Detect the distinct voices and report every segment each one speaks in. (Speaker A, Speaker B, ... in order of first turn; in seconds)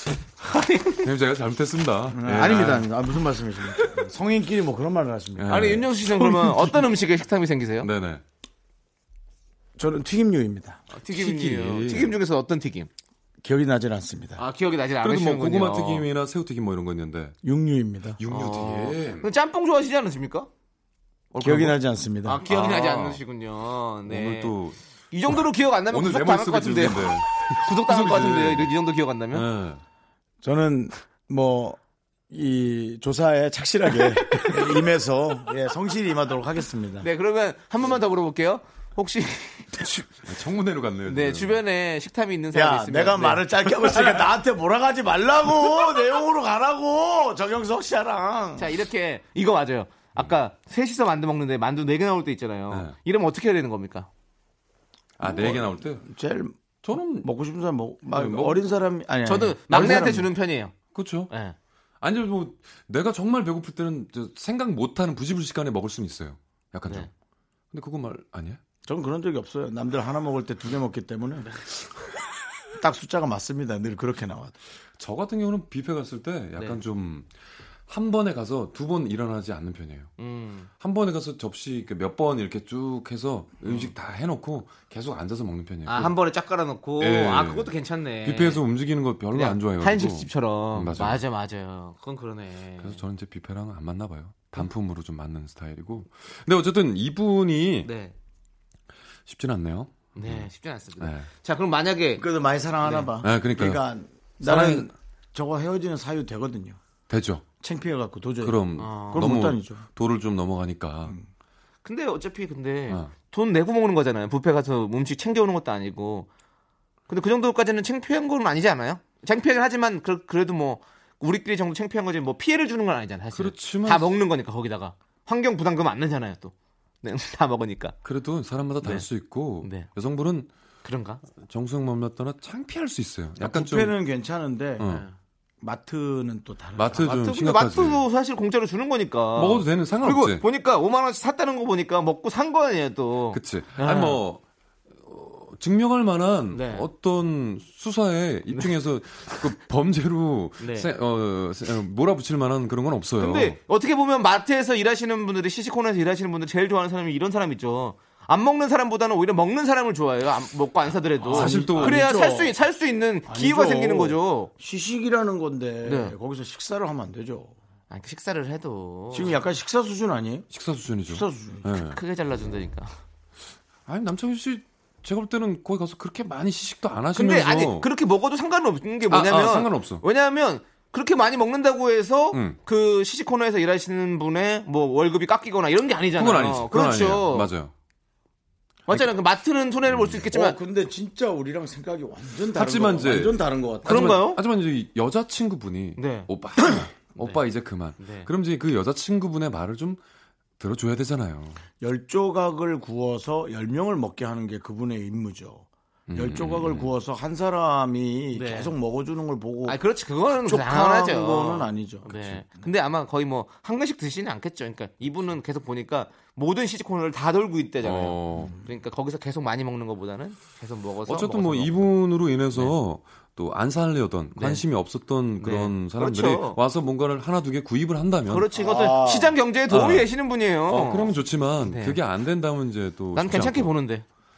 Speaker A: 0.4-1.1, 2.5-2.8, 5.5-7.9, 10.9-12.9, 14.4-16.1, 18.3-20.5, 22.2-24.6, 25.1-29.5, 37.0-40.1, 41.1-43.5, 48.6-54.1, 59.2-60.8, 61.3-61.6, 80.2-80.7, 83.7-83.9, 85.9-88.6, 89.3-93.0, 97.8-98.2, 100.2-102.2, 102.8-103.1, 108.8-109.3, 111.8-116.3, 117.1-128.0, 129.6-129.9, 130.8-131.2, 134.8-135.1, 137.0-144.2, 146.5-146.9, 150.6-150.9, 153.2-164.5, 165.8-166.2, 167.9-169.4, 171.7-172.9, 177.1-187.5, 188.9-190.6, 193.8-194.4, 196.0-196.3, 197.2-197.4, 198.0-198.3, 208.3-208.7, 209.7-221.9, 224.3-224.6, 225.4-226.6, 228.3-232.0, 233.2-234.1
Speaker B: 1.0-2.9, 5.4-6.7, 7.8-8.2, 11.1-12.2, 15.0-17.4, 18.2-19.3, 21.3-21.8, 22.4-23.2, 24.1-28.8, 29.3-29.8, 40.2-41.6, 52.7-53.0, 55.2-56.0, 56.8-57.3, 58.1-58.6, 59.7-60.3, 60.9-61.3, 62.0-67.1, 67.7-68.6, 75.0-77.3, 77.9-80.1, 80.8-86.2, 87.0-87.7, 88.2-91.2, 92.8-97.9, 99.3-101.3, 103.2-103.8, 104.4-104.9, 107.1-107.5, 108.4-111.2, 123.3-124.2, 128.0-130.5, 131.4-134.0, 134.8-135.1, 136.8-138.1, 139.3-140.4, 143.3-144.4, 145.0-153.6, 161.3-162.1, 170.5-172.0, 173.9-177.9, 179.1-180.0, 182.3-182.6, 186.2-187.7, 189.9-190.2, 192.5-200.0, 200.6-201.6, 206.1-206.9, 212.2-212.4, 217.8-218.6, 221.1-228.5, 229.7-230.1, 230.7-233.7
Speaker C: 2.1-6.6, 9.8-10.8, 13.4-14.4, 17.4-18.2, 21.4-22.4, 30.4-37.1, 42.5-48.7, 55.2-60.3, 68.8-71.5, 72.8-74.6, 102.2-106.8, 107.6-109.8, 133.4-134.9, 135.6-137.1, 161.2-162.6, 163.3-167.6, 169.1-170.5, 171.1-171.7, 190.3-194.2, 201.8-209.8, 210.4-212.2, 228.6-229.4